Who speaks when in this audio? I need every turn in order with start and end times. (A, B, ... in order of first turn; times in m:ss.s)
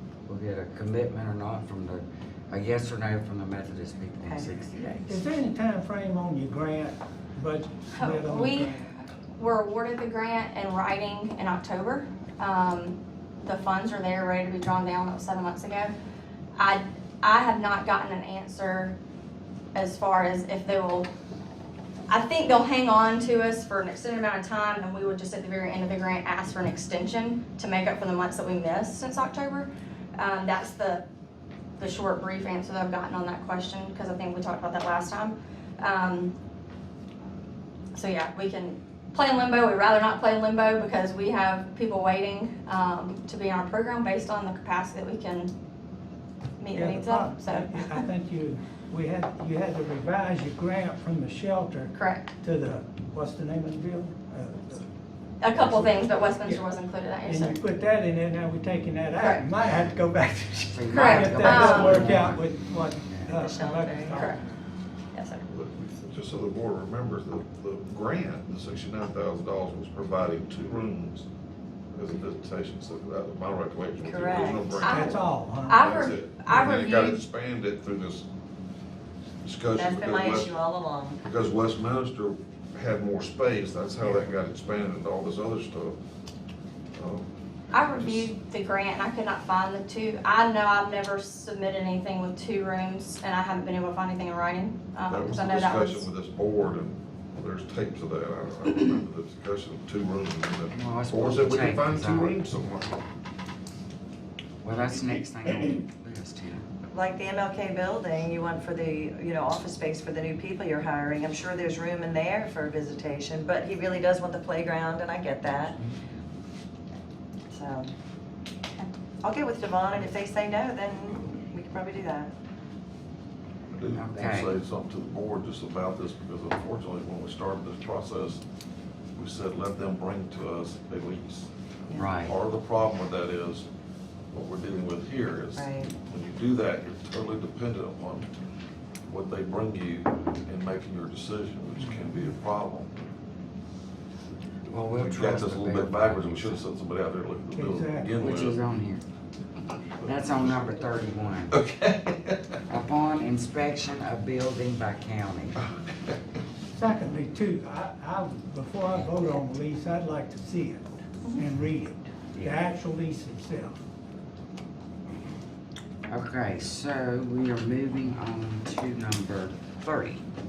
0:00.2-0:05.2 A
0:04.2-0:04.6 B
0:05.0-0:09.0 C
0:08.0-0:16.0 D
0:16.6-0:19.0 D
0:19.8-0:21.1 D
0:22.1-0:31.0 D
0:31.8-0:36.3 D
0:37.9-0:45.5 D
0:46.6-0:48.0 D
0:46.7-0:54.8 C
0:51.9-0:52.3 D
0:55.4-0:57.6 D
0:55.6-0:56.7 C
0:57.2-1:04.4 C
1:00.7-1:02.5 A
1:00.9-1:02.2 D
1:03.0-1:03.4 A
1:03.3-1:04.3 B
1:04.1-1:04.4 D
1:05.1-1:05.4 B
1:05.5-1:11.3 E
1:11.9-1:15.1 E
1:14.0-1:14.9 B
1:14.8-1:17.2 D
1:14.8-1:15.9 C
1:15.8-1:18.3 E
1:19.4-1:20.6 E
1:19.8-1:21.2 B
1:21.2-1:26.0 E
1:27.0-1:28.3 E
1:27.7-1:36.1 D
1:35.1-1:43.0 E
1:40.7-1:42.4 A
1:44.6-1:46.6 A
1:46.9-1:55.8 B
1:57.5-1:57.9 B
1:59.2-2:02.3 B
2:03.7-2:08.4 E
2:03.9-2:04.6 A
2:09.2-2:13.7 E
2:11.9-2:12.4 A
2:14.3-2:18.3 E
2:15.5-2:15.9 B
2:19.1-2:23.0 E
2:21.8-2:22.0 C
2:24.7-2:26.6 A
2:24.8-2:28.6 E
2:27.5-2:28.2 C
2:28.2-2:29.0 A
2:30.0-2:30.7 E
2:30.0-2:31.6 A
2:31.5-2:32.6 E
2:32.7-2:35.6 A
2:36.7-2:43.8 C
2:38.9-2:39.4 A
2:42.3-2:42.6 A
2:46.1-2:50.2 A